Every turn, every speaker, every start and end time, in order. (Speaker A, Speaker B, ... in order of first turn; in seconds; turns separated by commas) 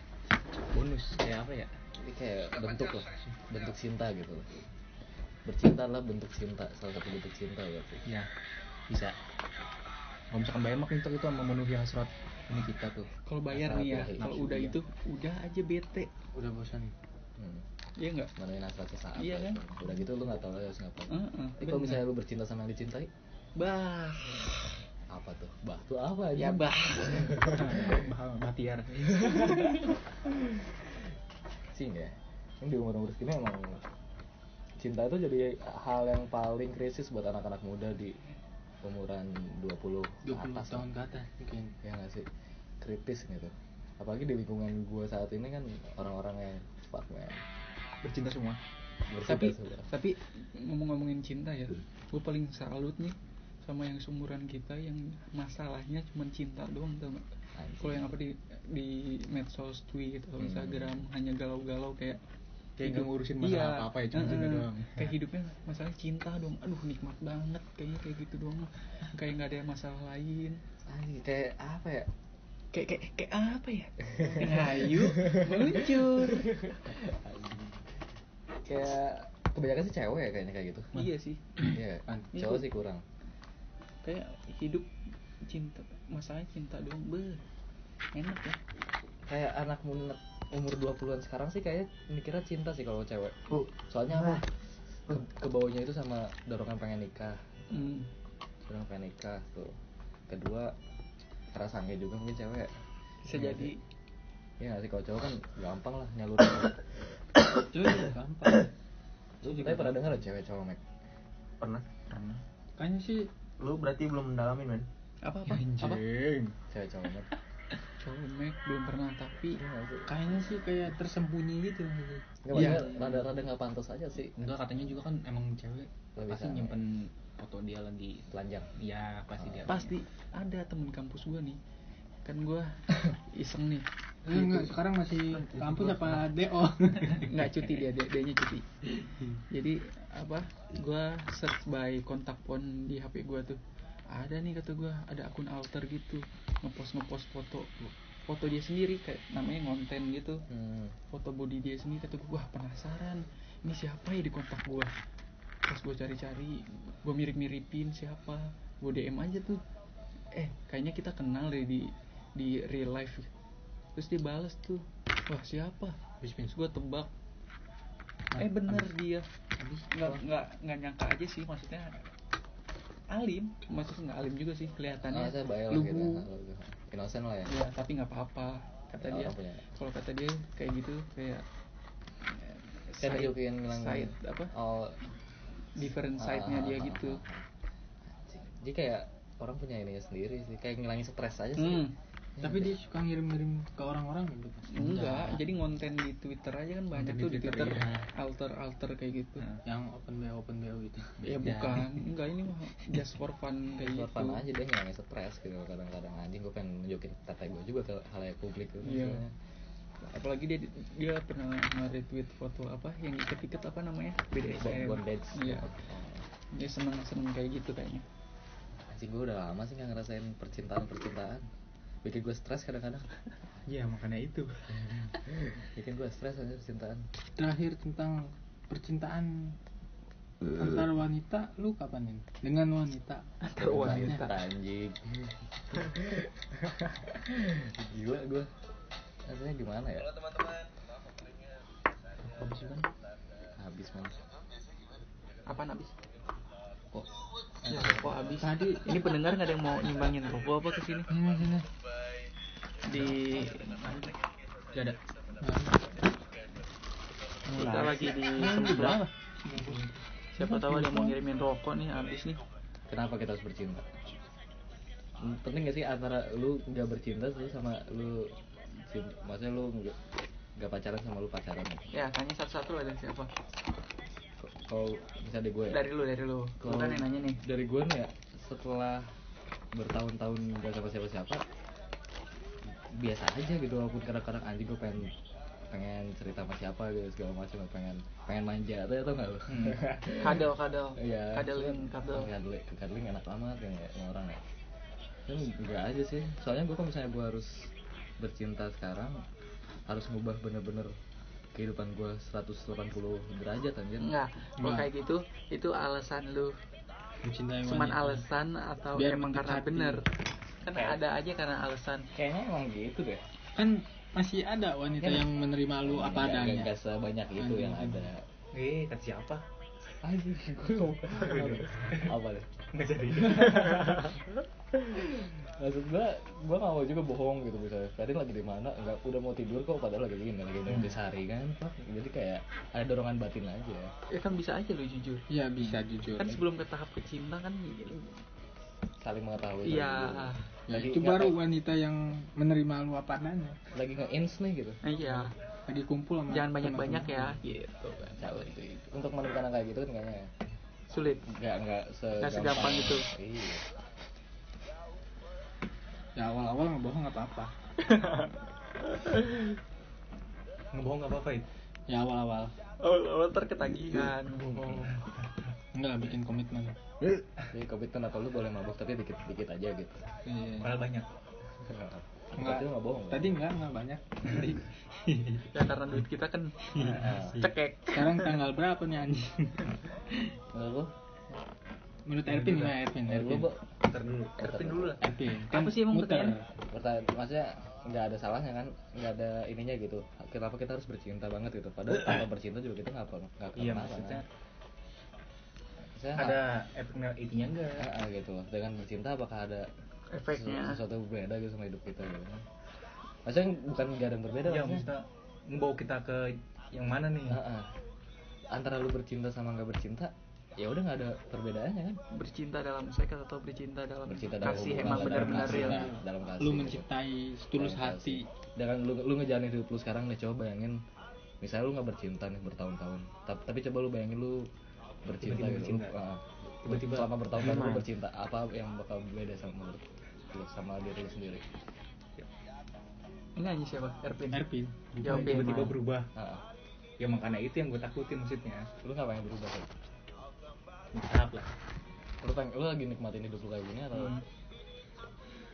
Speaker A: 0.7-1.7, Speaker B: 1.9-4.5, Speaker B: 5.5-8.0, Speaker A: 8.9-9.2, Speaker A: 10.3-13.1, Speaker C: 13.2-16.1, Speaker B: 13.5-14.8, Speaker D: 16.3-16.9, Speaker B: 17.4-17.6, Speaker C: 18.0-18.3, Speaker B: 18.4-23.1, Speaker C: 19.2-19.6, Speaker C: 21.1-22.0, Speaker C: 23.6-24.5, Speaker B: 25.1-28.0, Speaker C: 26.4-27.8, Speaker A: 27.4-29.7, Speaker B: 29.2-30.7, Speaker B: 31.7-33.8, Speaker B: 34.8-38.2, Speaker B: 38.8-40.9, Speaker D: 40.3-41.7, Speaker B: 41.8-42.3, Speaker B: 42.8-47.4, Speaker A: 48.0-48.6, Speaker B: 49.1-49.9, Speaker C: 49.3-57.2, Speaker B: 57.5-58.1, Speaker C: 57.8-62.2, Speaker B: 60.4-61.1, Speaker A: 62.8-65.1, Speaker C: 62.8-70.6, Speaker B: 70.9-72.1, Speaker C: 72.7-76.5, Speaker B: 74.2-77.8, Speaker B: 78.7-81.0, Speaker C: 80.9-81.5, Speaker B: 81.7-83.0, Speaker C: 82.3-82.7, Speaker C: 84.0-84.9, Speaker C: 85.4-87.4, Speaker C: 88.1-88.6, Speaker B: 89.3-94.5, Speaker E: 93.5-94.4, Speaker B: 95.1-97.4, Speaker C: 97.7-98.1, Speaker B: 98.7-99.8, Speaker B: 100.3-100.7, Speaker B: 101.5-102.7, Speaker C: 103.2-103.8, Speaker B: 103.3-103.7, Speaker B: 104.6-106.8, Speaker D: 107.6-108.7, Speaker B: 109.4-110.8, Speaker D: 109.5-109.9, Speaker E: 111.6-111.9, Speaker A: 112.1-112.4, Speaker D: 112.8-113.3, Speaker E: 113.6-114.9, Speaker C: 115.2-115.6, Speaker A: 115.5-116.5, Speaker B: 116.7-117.3, Speaker C: 118.0-119.6, Speaker B: 119.5-120.1, Speaker D: 120.1-123.0, Speaker B: 122.4-124.4, Speaker C: 122.5-122.9, Speaker A: 124.4-129.9, Speaker B: 126.2-126.8, Speaker B: 128.3-128.7, Speaker B: 129.4-129.7, Speaker C: 129.7-131.6, Speaker C: 132.2-133.9, Speaker D: 134.2-137.3, Speaker A: 134.3-134.7, Speaker A: 135.2-136.3, Speaker C: 137.2-138.7, Speaker C: 139.5-147.7, Speaker C: 148.3-150.4, Speaker B: 150.5-150.9, Speaker C: 151.1-154.9, Speaker C: 155.7-159.6, Speaker C: 160.3-163.3, Speaker C: 163.9-166.0, Speaker C: 166.5-167.1, Speaker C: 168.3-169.3, Speaker D: 168.4-168.8, Speaker D: 169.6-169.8, Speaker C: 169.9-172.0, Speaker C: 173.1-175.4, Speaker B: 175.0-177.6, Speaker D: 175.7-176.3, Speaker C: 177.5-181.4, Speaker B: 179.0-179.6, Speaker C: 182.3-184.5, Speaker B: 183.0-185.0, Speaker C: 185.8-187.2, Speaker B: 186.2-187.4, Speaker B: 188.1-191.9, Speaker C: 191.6-191.9, Speaker B: 192.4-192.7, Speaker D: 192.4-195.4, Speaker C: 194.7-199.5, Speaker A: 196.9-198.0, Speaker D: 199.7-202.0, Speaker C: 201.2-204.4, Speaker B: 203.8-209.3, Speaker C: 208.8-209.2, Speaker C: 210.0-215.7, Speaker B: 214.6-216.2, Speaker C: 216.5-218.1, Speaker B: 218.9-221.4, Speaker B: 222.0-223.1, Speaker A: 223.7-224.7, Speaker B: 224.7-227.0, Speaker D: 227.4-229.6, Speaker D: 230.5-234.3, Speaker B: 233.6-238.5, Speaker C: 233.8-234.1, Speaker B: 239.2-240.2, Speaker A: 242.2-242.8, Speaker B: 243.6-244.2, Speaker C: 245.5-245.9, Speaker D: 247.7-248.9, Speaker C: 247.7-251.1, Speaker D: 251.1-251.7, Speaker C: 252.8-254.0, Speaker D: 254.8-255.8, Speaker C: 257.5-259.1, Speaker A: 257.6-258.7, Speaker D: 257.6-259.9, Speaker E: 257.6-258.0, Speaker E: 258.6-259.0, Speaker C: 260.4-262.4, Speaker D: 260.4-261.1, Speaker B: 262.9-263.9, Speaker B: 265.2-270.0, Speaker B: 270.6-271.9, Speaker C: 271.9-273.3, Speaker B: 274.4-275.8, Speaker C: 275.7-277.4, Speaker B: 276.6-279.1, Speaker B: 279.7-281.4, Speaker B: 282.9-285.1, Speaker B: 285.7-294.4, Speaker A: 289.5-289.8, Speaker C: 290.1-292.3, Speaker B: 295.3-299.2, Speaker B: 299.9-300.9, Speaker B: 301.5-304.1, Speaker C: 304.0-306.6, Speaker D: 304.6-304.9, Speaker D: 307.2-308.2, Speaker C: 307.7-310.1, Speaker D: 308.9-310.0, Speaker C: 310.6-312.1, Speaker B: 312.1-313.2, Speaker D: 313.6-316.7, Speaker B: 315.0-315.3, Speaker B: 315.8-318.2, Speaker D: 317.4-318.1, Speaker A: 318.5-319.4, Speaker B: 320.0-322.5, Speaker A: 321.1-322.1, Speaker A: 322.7-324.1, Speaker B: 323.1-333.9, Speaker A: 330.7-331.0, Speaker C: 334.1-335.2, Speaker D: 335.3-336.4, Speaker C: 336.2-338.1, Speaker B: 339.0-341.4, Speaker C: 339.6-340.4, Speaker D: 340.7-343.6, Speaker B: 343.7-344.8, Speaker C: 344.8-345.3, Speaker D: 345.7-347.4, Speaker C: 346.3-348.4, Speaker B: 348.1-350.3, Speaker C: 350.9-351.2, Speaker B: 351.3-353.6, Speaker C: 352.2-353.1, Speaker D: 356.2-357.5, Speaker C: 357.8-358.3, Speaker C: 358.9-359.4, Speaker A: 360.7-361.4, Speaker D: 361.9-362.5, Speaker C: 362.8-364.9, Speaker B: 364.5-364.9, Speaker A: 364.6-365.0, Speaker D: 365.7-366.8, Speaker B: 367.5-370.1, Speaker D: 370.3-370.8, Speaker A: 370.6-371.1, Speaker B: 371.6-373.4, Speaker D: 372.4-375.4, Speaker C: 375.5-378.4, Speaker B: 376.8-377.5, Speaker D: 377.9-380.3, Speaker B: 380.5-380.9, Speaker D: 382.1-383.5, Speaker A: 382.3-382.8, Speaker B: 383.0-385.1, Speaker A: 383.8-384.4, Speaker C: 384.4-386.4, Speaker D: 385.0-386.4, Speaker B: 386.6-394.2, Speaker A: 393.6-394.2, Speaker B: 396.0-396.4, Speaker A: 396.1-397.9, Speaker B: 397.8-399.7, Speaker C: 400.1-400.8, Speaker B: 400.3-402.4, Speaker B: 403.2-404.9, Speaker A: 404.4-407.4, Speaker B: 407.3-407.7, Speaker B: 408.5-412.0, Speaker C: 412.1-415.9, Speaker B: 414.1-416.9, Speaker A: 414.8-416.0, Speaker D: 416.4-418.3, Speaker B: 417.6-420.8, Speaker B: 421.4-424.5, Speaker B: 425.1-431.4, Speaker A: 425.2-425.9, Speaker A: 426.6-427.1, Speaker E: 427.4-427.9, Speaker C: 433.4-434.5, Speaker D: 434.3-435.6, Speaker C: 435.0-435.7, Speaker A: 435.0-436.1, Speaker E: 435.2-435.7, Speaker B: 436.1-436.4, Speaker A: 437.0-438.7, Speaker B: 438.8-439.7, Speaker A: 440.9-441.5, Speaker B: 442.2-444.1, Speaker A: 444.0-444.2